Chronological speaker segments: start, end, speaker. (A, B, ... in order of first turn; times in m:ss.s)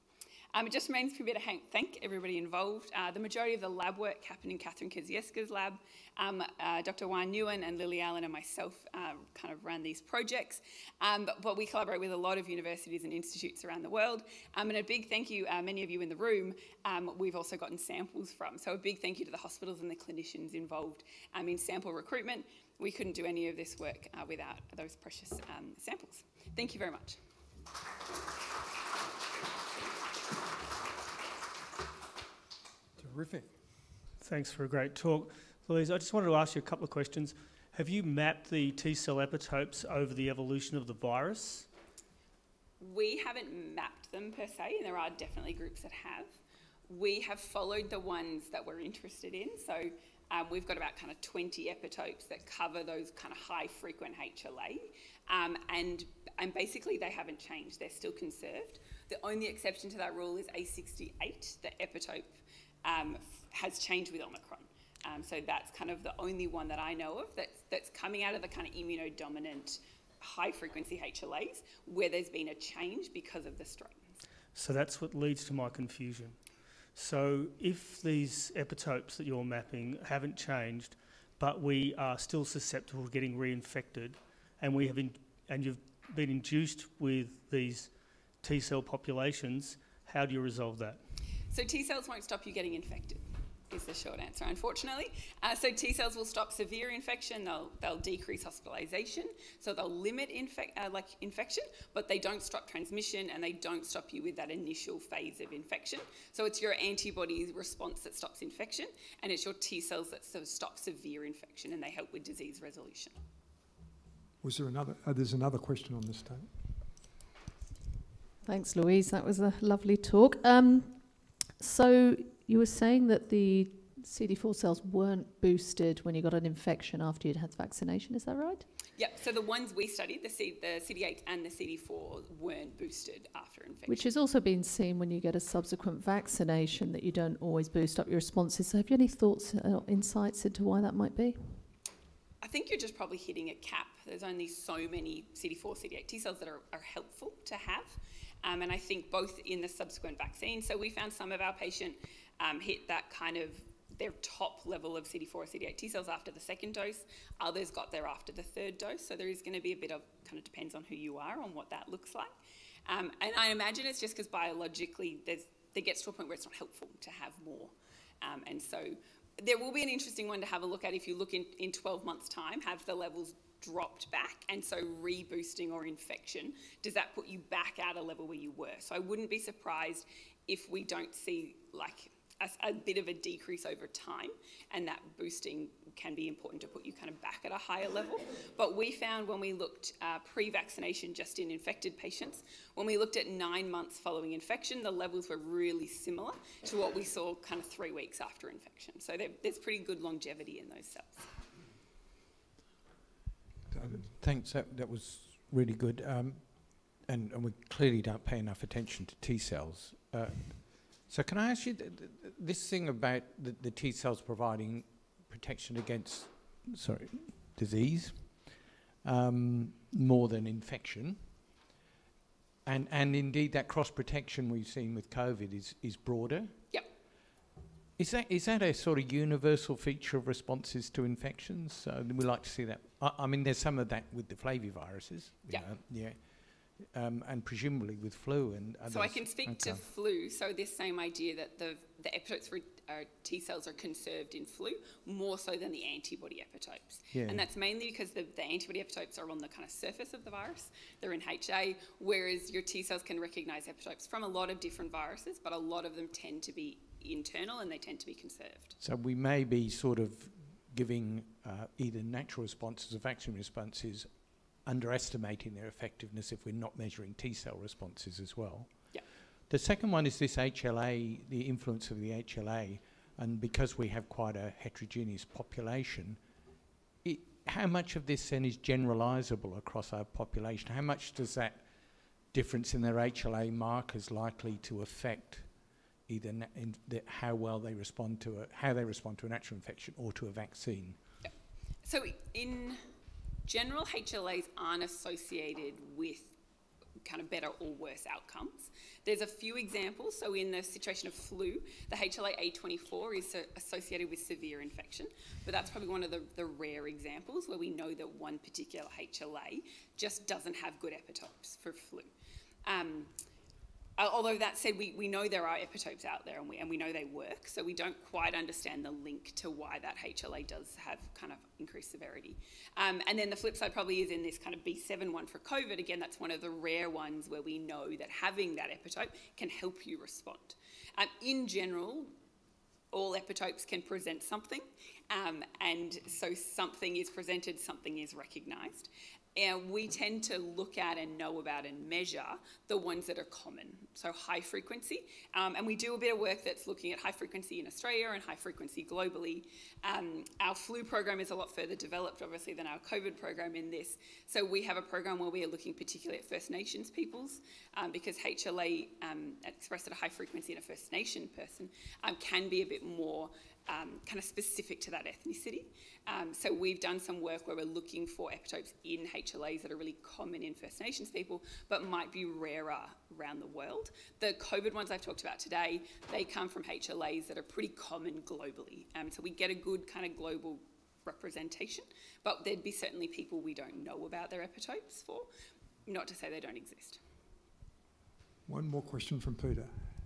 0:00.5-0:27.2 A
0:33.0-0:33.5 B
0:34.2-0:41.7 C
0:42.8-0:46.3 A
0:46.9-1:14.1 A
1:14.5-1:16.4 C
1:16.9-1:31.0 C
1:31.5-1:53.1 A
1:54.4-1:56.5 B
1:58.4-2:08.6 D
2:09.0-2:14.1 A
2:13.9-2:21.6 D
2:22.4-2:42.3 A
2:42.9-3:21.3 A
3:23.7-3:41.4 E
3:42.6-3:46.6 E
3:48.0-3:59.8 E
3:58.9-4:18.8 A
4:07.1-4:07.5 E
4:18.8-4:28.9 E
4:29.5-4:36.2 E
4:37.0-4:41.7 E
4:42.3-4:45.5 E
4:46.1-4:51.0 E
4:51.8-4:52.8 A
4:53.5-4:56.4 A
4:57.0-5:12.1 A
5:12.6-5:13.1 A
5:14.0-5:32.1 A
5:32.9-6:25.3 A
6:25.9-6:27.0 A
6:28.5-6:29.8 B